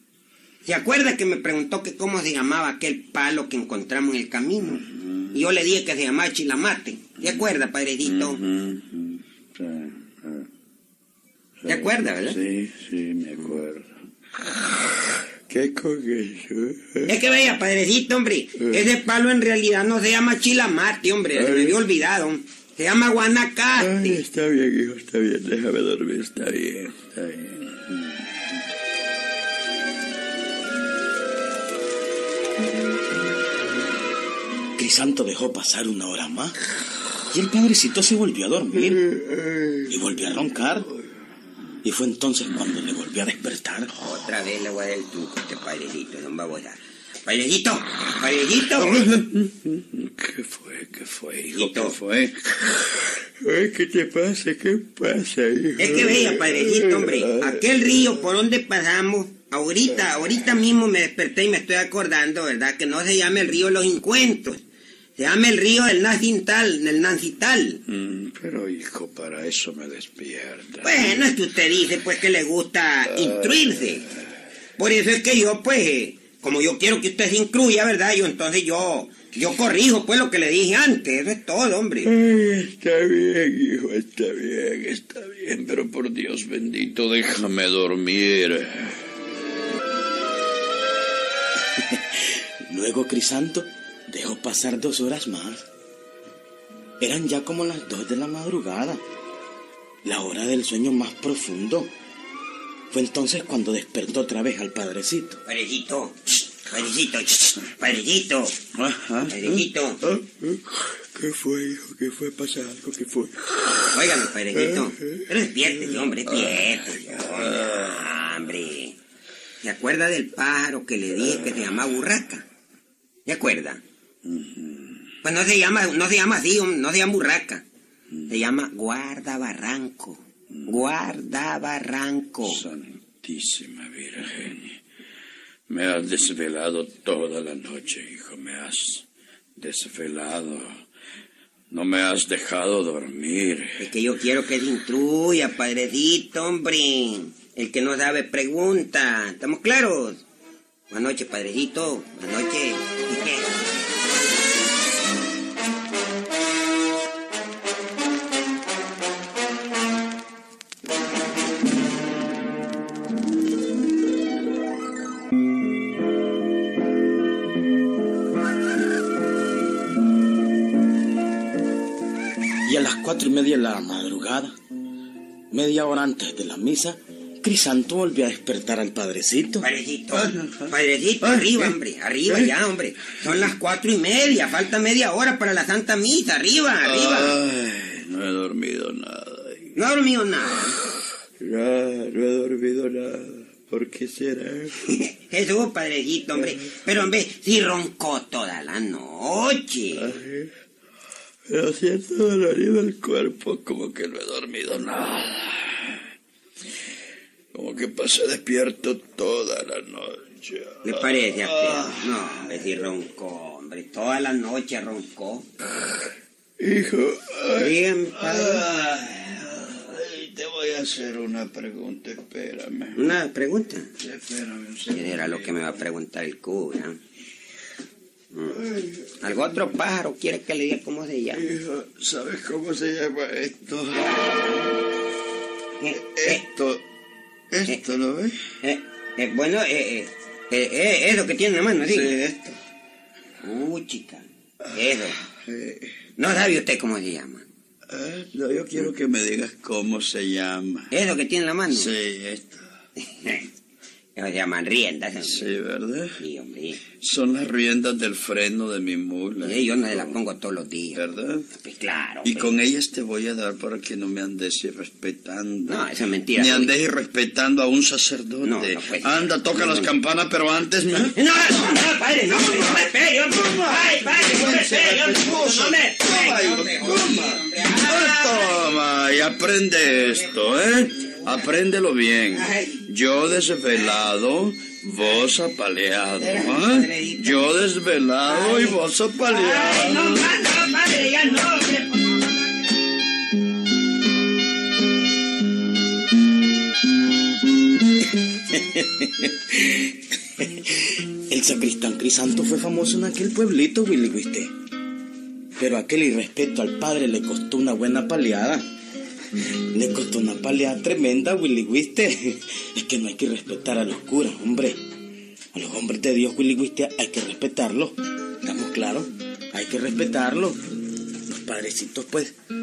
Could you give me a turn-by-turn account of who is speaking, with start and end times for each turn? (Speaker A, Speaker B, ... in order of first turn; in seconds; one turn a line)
Speaker A: 0.6-8.4
Speaker B: 4.9-5.3
Speaker B: 8.0-10.5
Speaker B: 11.6-13.9
Speaker A: 11.7-12.4
Speaker B: 15.5-17.1
Speaker A: 17.1-24.2
Speaker B: 21.3-21.8
Speaker B: 23.8-28.2
Speaker C: 34.8-36.6
Speaker C: 37.3-39.0
Speaker B: 39.2-39.8
Speaker C: 39.9-40.9
Speaker C: 41.8-43.9
Speaker A: 44.0-49.0
Speaker B: 48.8-57.7
Speaker A: 51.5-52.0
Speaker A: 55.8-64.6
Speaker A: 65.2-67.8
Speaker B: 67.9-71.2
Speaker A: 70.8-74.0
Speaker A: 74.8-82.1
Speaker B: 82.0-89.0
Speaker C: 91.7-95.7
Speaker C: 97.0-99.0
Speaker C: 100.0-101.9
Speaker C: 102.9-105.4
Speaker A: 105.5-108.5
Speaker B: 108.7-113.9
Speaker A: 109.3-110.0
Speaker A: 113.9-119.0
Speaker B: 114.5-115.2
Speaker B: 115.9-118.1
Speaker A: 119.6-122.4
Speaker A: 123.2-123.8
Speaker B: 124.2-125.1
Speaker A: 125.2-127.6
Speaker A: 128.3-132.6
Speaker B: 130.6-130.8
Speaker B: 132.4-134.8
Speaker B: 135.7-139.0
Speaker B: 139.6-140.8
Speaker B: 141.7-143.9
Speaker A: 143.8-150.2
Speaker A: 150.9-153.8
Speaker C: 172.6-174.6
Speaker C: 175.5-179.7
Speaker A: 179.6-187.4
Speaker B: 180.1-181.7
Speaker B: 186.8-189.8
Speaker A: 189.8-190.8
Speaker B: 191.4-194.8
Speaker A: 194.9-200.1
Speaker B: 200.0-200.5
Speaker B: 201.5-206.0
Speaker B: 207.5-212.2
Speaker A: 210.8-215.5
Speaker B: 216.6-223.2
Speaker A: 217.5-218.6
Speaker A: 222.9-223.9
Speaker B: 224.0-225.8
Speaker A: 224.9-227.0
Speaker A: 228.3-228.6
Speaker B: 228.5-229.3
Speaker A: 229.2-231.4
Speaker B: 231.3-234.7
Speaker A: 235.8-236.4
Speaker B: 236.0-236.8
Speaker B: 237.5-238.4
Speaker A: 238.6-242.2
Speaker B: 241.9-242.6
Speaker A: 243.4-245.2
Speaker B: 245.4-246.0
Speaker A: 246.2-247.5
Speaker B: 247.9-250.9
Speaker A: 250.9-251.9
Speaker B: 251.7-252.7
Speaker A: 253.0-253.5
Speaker A: 254.1-255.5
Speaker B: 255.3-256.1
Speaker A: 256.2-256.8
Speaker B: 256.9-260.2
Speaker A: 259.4-262.6
Speaker B: 260.9-261.5
Speaker B: 262.2-271.1
Speaker A: 265.7-266.7
Speaker A: 268.4-269.9
Speaker A: 271.1-278.7
Speaker B: 272.3-272.7
Speaker B: 273.4-290.2
Speaker A: 282.3-282.8
Speaker A: 286.2-287.4
Speaker A: 288.2-288.8
Speaker A: 289.3-292.3
Speaker C: 298.5-304.5
Speaker C: 305.6-308.7
Speaker C: 309.4-314.8
Speaker C: 315.5-320.6
Speaker C: 321.2-322.3